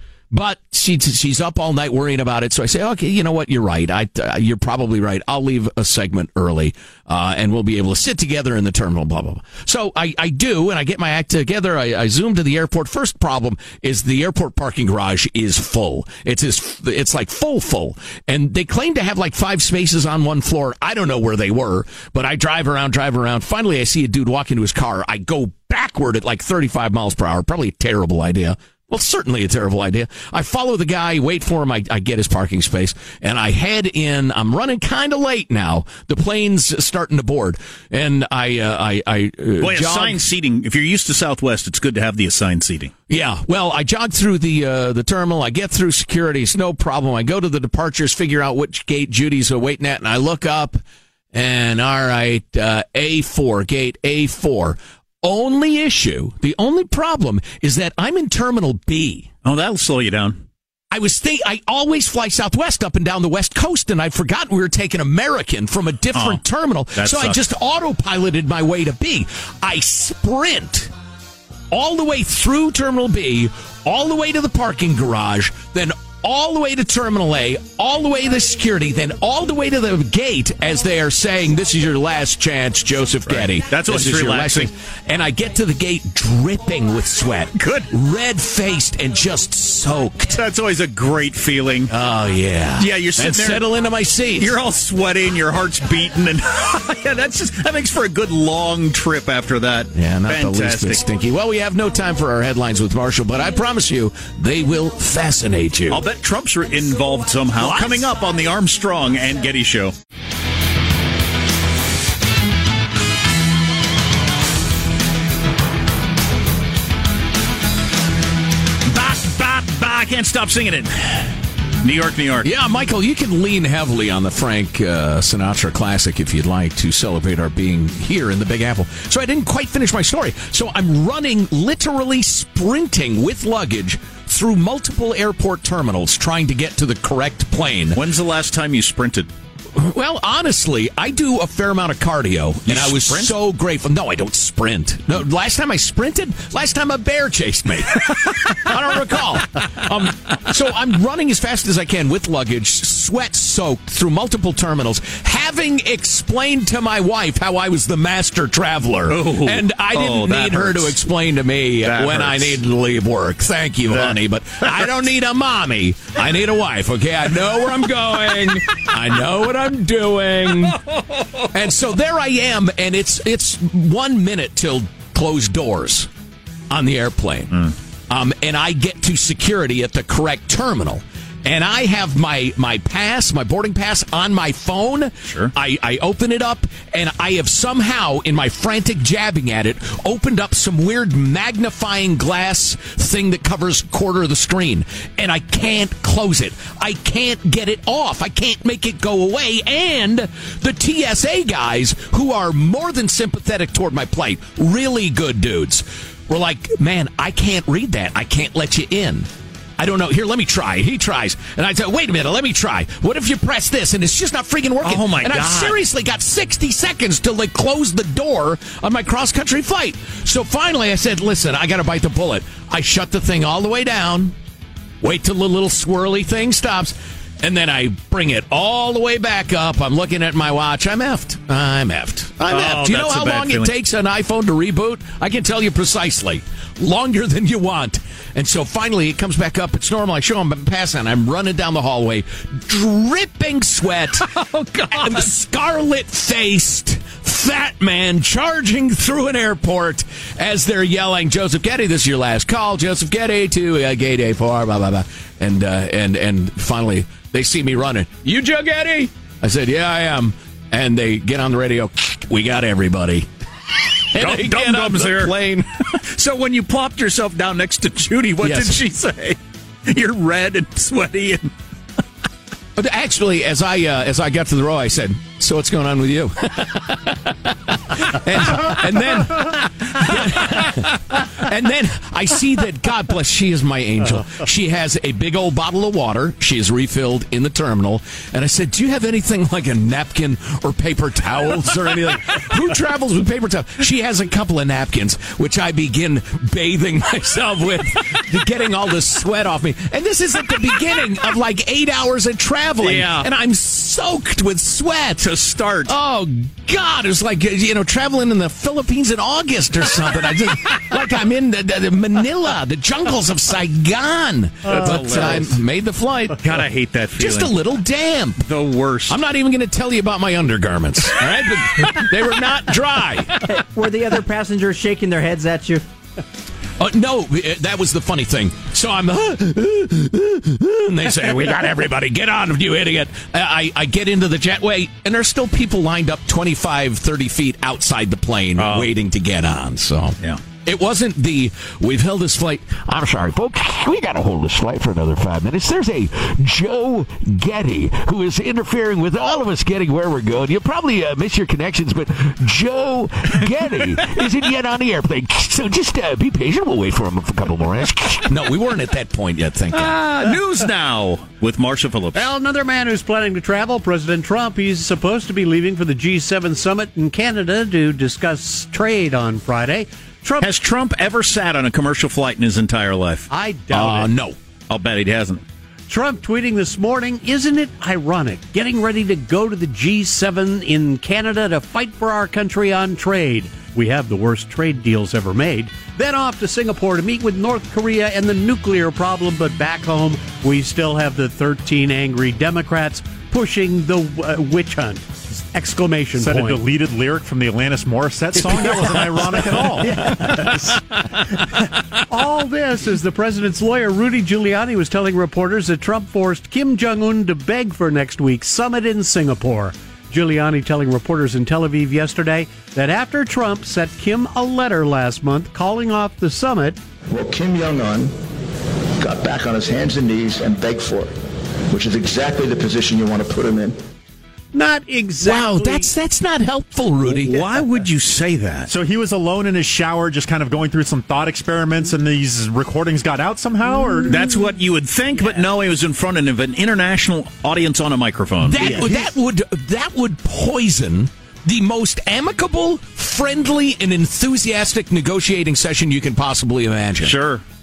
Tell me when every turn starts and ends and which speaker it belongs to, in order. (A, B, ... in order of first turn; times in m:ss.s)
0:00.3-0:40.2 A
0:39.6-0:42.9 B
0:43.1-0:50.8 A
0:51.3-0:59.3 A
0:59.4-1:00.4 B
1:00.9-1:10.9 A
1:06.2-1:06.4 B
1:07.0-1:07.4 B
1:11.7-1:30.4 A
1:23.3-1:24.7 B
1:27.6-1:27.9 B
1:30.3-1:31.9 B
1:31.9-1:34.6 A
1:32.8-1:33.7 B
1:34.4-1:41.0 B
1:39.9-1:46.0 A
1:45.9-1:49.9 B
1:47.6-1:48.1 A
1:58.9-2:02.5 B
2:02.4-2:18.0 A
2:18.0-2:19.3 B
2:19.7-2:50.8 A
2:22.7-2:23.3 B
2:39.1-2:41.0 B
2:41.8-2:42.6 B
2:43.9-2:44.9 B
2:50.8-2:51.4 B
2:51.5-2:56.1 A
2:56.7-2:57.6 A
2:58.1-3:44.4 A
3:05.3-3:05.5 B
3:34.8-3:35.8 B
3:45.0-4:04.3 A
3:52.5-3:53.7 B
4:04.2-4:05.3 B
4:04.9-4:23.3 A
4:24.1-4:25.7 A
4:24.1-4:25.3 B
4:26.0-4:31.5 B
4:28.4-4:28.8 A
4:32.8-5:05.3 A
5:02.8-5:03.3 B
5:05.2-5:05.9 B
5:05.8-5:16.6 A
5:14.7-5:15.6 B
5:14.8-5:15.3 C
5:16.4-5:17.6 B
5:17.2-5:18.4 A
5:18.4-5:19.2 B
5:19.1-5:23.4 A
5:23.5-5:25.8 D
5:26.8-5:59.9 A
5:38.6-5:38.9 B
5:59.7-6:02.3 B
6:02.1-6:10.5 C
6:10.4-6:13.3 B
6:13.3-6:14.1 C
6:13.7-6:14.4 A
6:14.7-6:15.4 B
6:15.9-6:36.6 C
6:36.2-6:40.6 E
6:38.5-6:40.8 C
6:42.1-6:56.8 C
6:57.1-6:58.1 F
6:59.0-7:01.1 F
7:01.7-7:03.8 F
7:04.5-7:06.0 C
7:05.2-7:07.3 A
7:07.1-7:07.6 C
7:07.3-7:08.7 B
7:08.7-7:14.2 E
7:14.0-7:19.0 B
7:18.4-7:27.2 A
7:27.0-7:27.4 B